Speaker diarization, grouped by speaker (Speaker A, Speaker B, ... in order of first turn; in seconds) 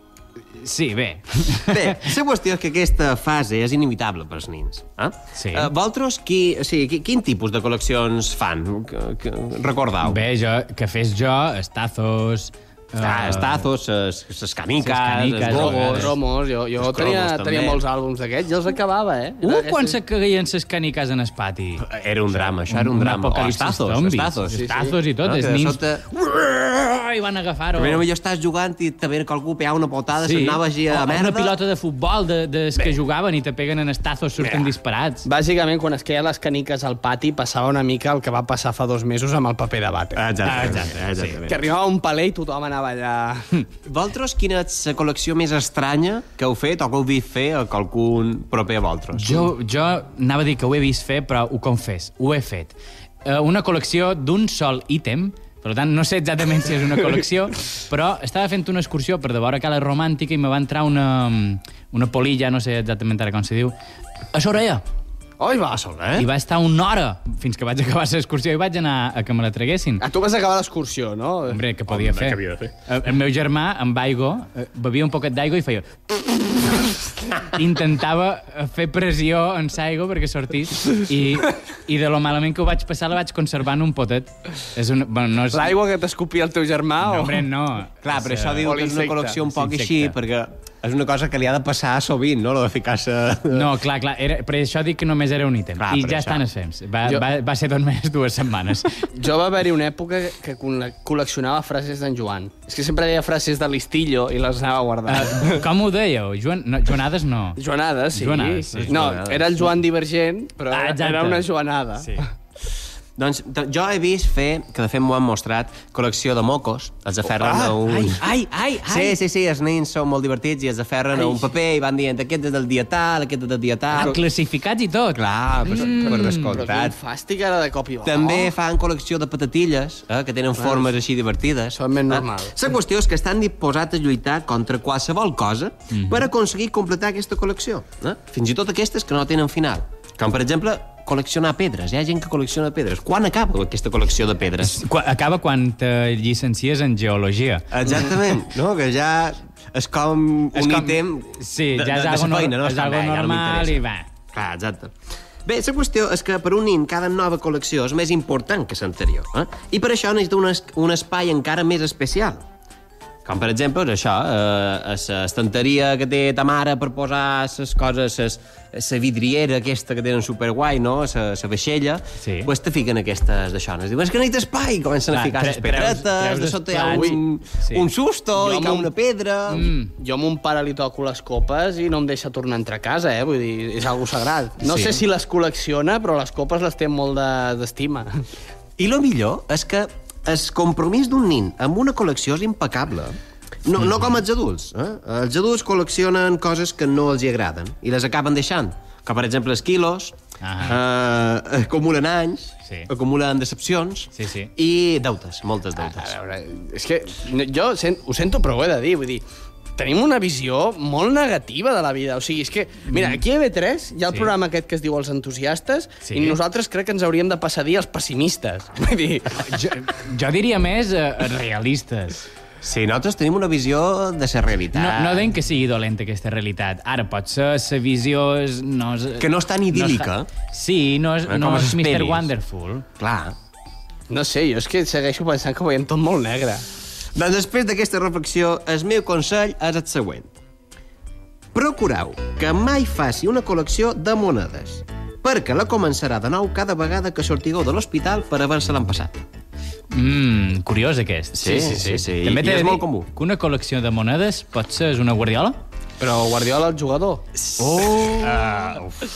Speaker A: 0.6-2.0, 5.3-5.7, 10.0-13.7, 14.8-16.1, 19.4-28.0, 30.2-35.3, 40.4-41.4, 49.1-63.7, 64.3-64.8, 66.2-70.0, 71.5-76.9, 77.5-85.8, 87.0-90.1, 93.5-99.1, 105.1-107.6, 108.1-109.0, 110.7-111.5, 112.0-112.2, 117.4-119.2, 123.9-126.7, 135.9-136.3, 144.6-147.9, 150.5-154.1, 172.2-172.5, 175.1-177.9, 179.5-179.9, 184.6-185.0, 193.8-194.2, 200.4-200.8, 204.2-204.5, 212.9-213.2, 214.1-214.3, 216.0-216.4, 219.4-222.2, 224.7-232.8, 249.9-255.6, 257.6-258.7
Speaker B: 1.7-10.2, 13.0-16.2, 16.8-17.8, 21.8-24.6, 25.2-26.8, 27.8-31.5, 40.1-41.6, 43.9-49.5, 65.8-66.2, 71.9-72.7, 88.0-93.7, 95.8-96.4, 108.7-109.7, 113.2-124.2, 125.1-127.0, 128.0-144.8, 147.7-153.8, 154.3-154.9, 155.4-162.4, 163.2-179.7, 188.8-206.2, 222.6-225.3, 229.2-230.3, 231.3-232.3, 233.0-233.3, 237.1-240.3, 241.5-249.2, 251.3-253.1, 257.4-259.0
Speaker C: 15.5-19.9, 24.5-24.9, 34.4-34.7, 35.2-40.8, 41.5-43.5, 65.4-65.9, 70.0-71.6, 85.5-87.4, 88.6-89.3, 99.1-105.7, 107.6-112.2, 121.1-121.5, 125.8-128.5, 130.6-130.8, 131.7-132.5, 176.9-177.2, 178.3-178.9, 180.0-188.2, 205.8-209.2, 209.8-219.6, 234.1-236.7, 251.6-252.0, 256.0-257.2